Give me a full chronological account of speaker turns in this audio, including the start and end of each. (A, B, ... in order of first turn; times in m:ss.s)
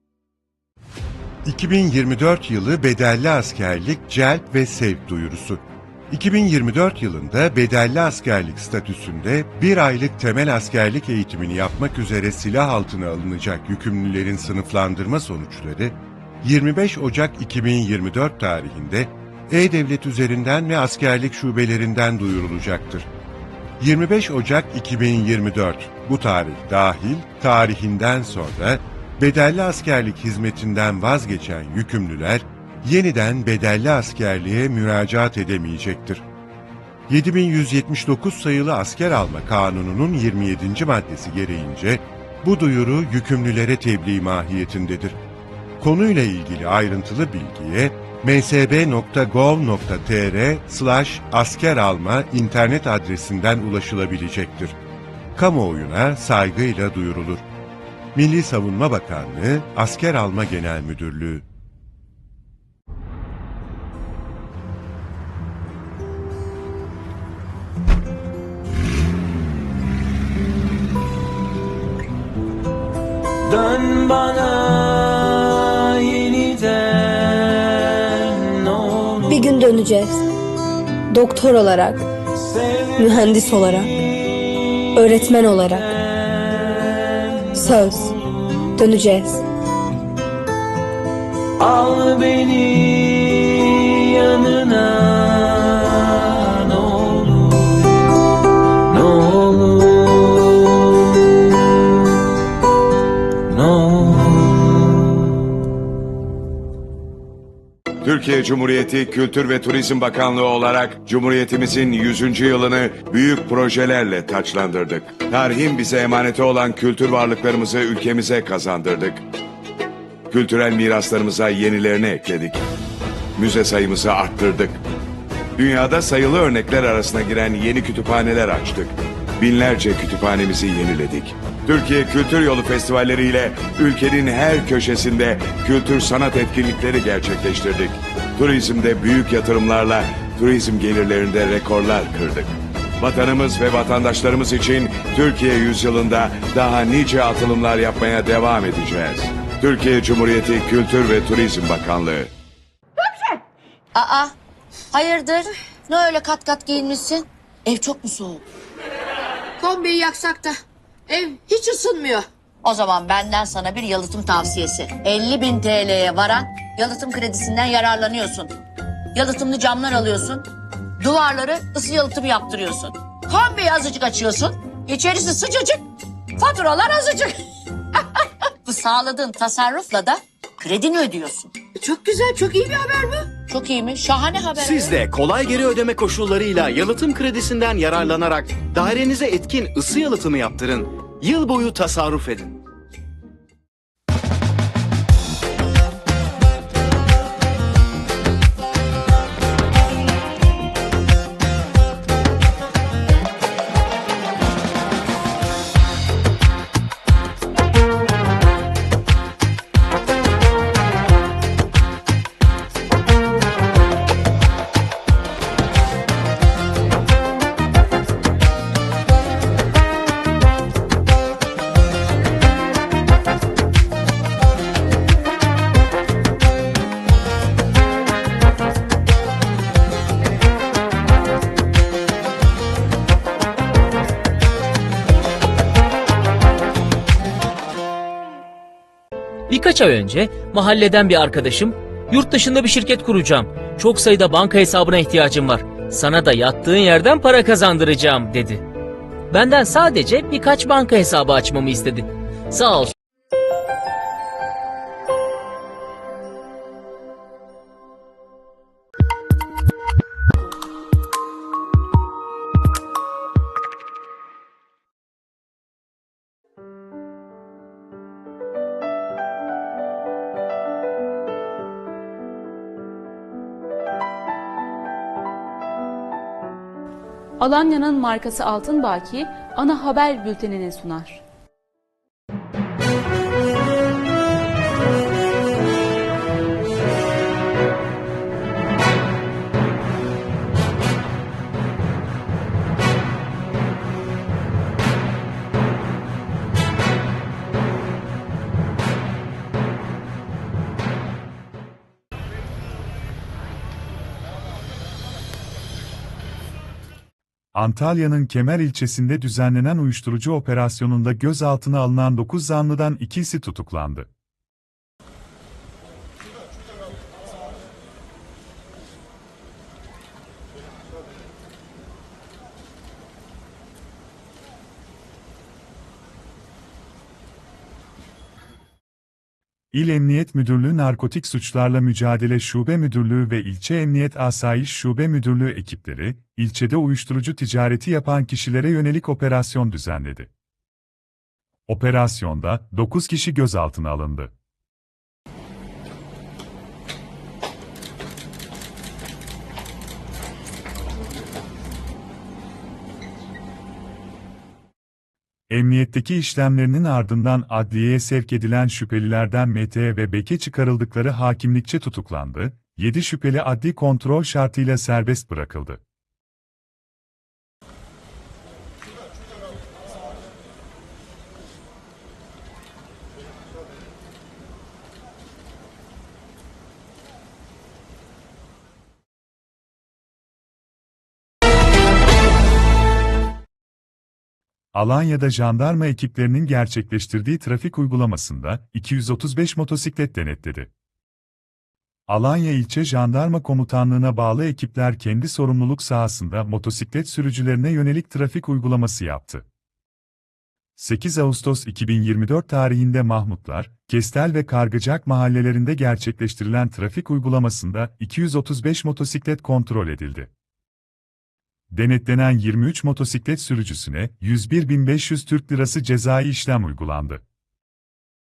0:01.4-0:23.1 A
0:23.8-0:36.2 A
0:37.1-0:45.2 A
0:45.8-0:54.8 A
0:55.4-0:57.4 A
0:58.1-1:01.4 A
1:13.4-1:19.4 B
1:19.3-1:20.2 C
1:21.1-1:22.1 C
1:22.4-1:23.1 B
1:23.0-1:23.9 C
1:23.9-1:24.4 B
1:25.0-1:25.8 C
1:26.2-1:26.8 B
1:27.5-1:28.1 B
1:27.5-1:28.1 C
1:28.8-1:29.4 C
1:31.6-1:37.8 B
1:38.9-1:40.9 B
1:43.5-1:45.1 B
1:48.0-1:59.2 D
2:00.3-2:02.6 D
2:03.4-2:04.8 D
2:05.6-2:32.3 D
2:33.9-2:34.3 E
2:34.9-2:38.4 E
2:39.6-2:40.5 F
2:41.1-2:42.2 F
2:42.6-2:48.6 E
2:49.1-2:50.4 E
2:51.0-2:57.4 E
2:58.6-3:01.5 E
3:01.7-3:03.3 F
3:03.5-3:04.9 E
3:04.6-3:12.6 G
3:59.5-4:08.6 H
4:09.3-4:12.9 H
4:37.4-4:41.2 I
5:07.5-5:14.1 J
5:29.7-5:40.3 J
5:41.7-5:44.3 J
5:55.5-6:05.8 J
6:24.7-6:30.7 J
6:32.1-6:39.4 J
6:40.8-6:50.3 J
6:51.7-6:57.2 J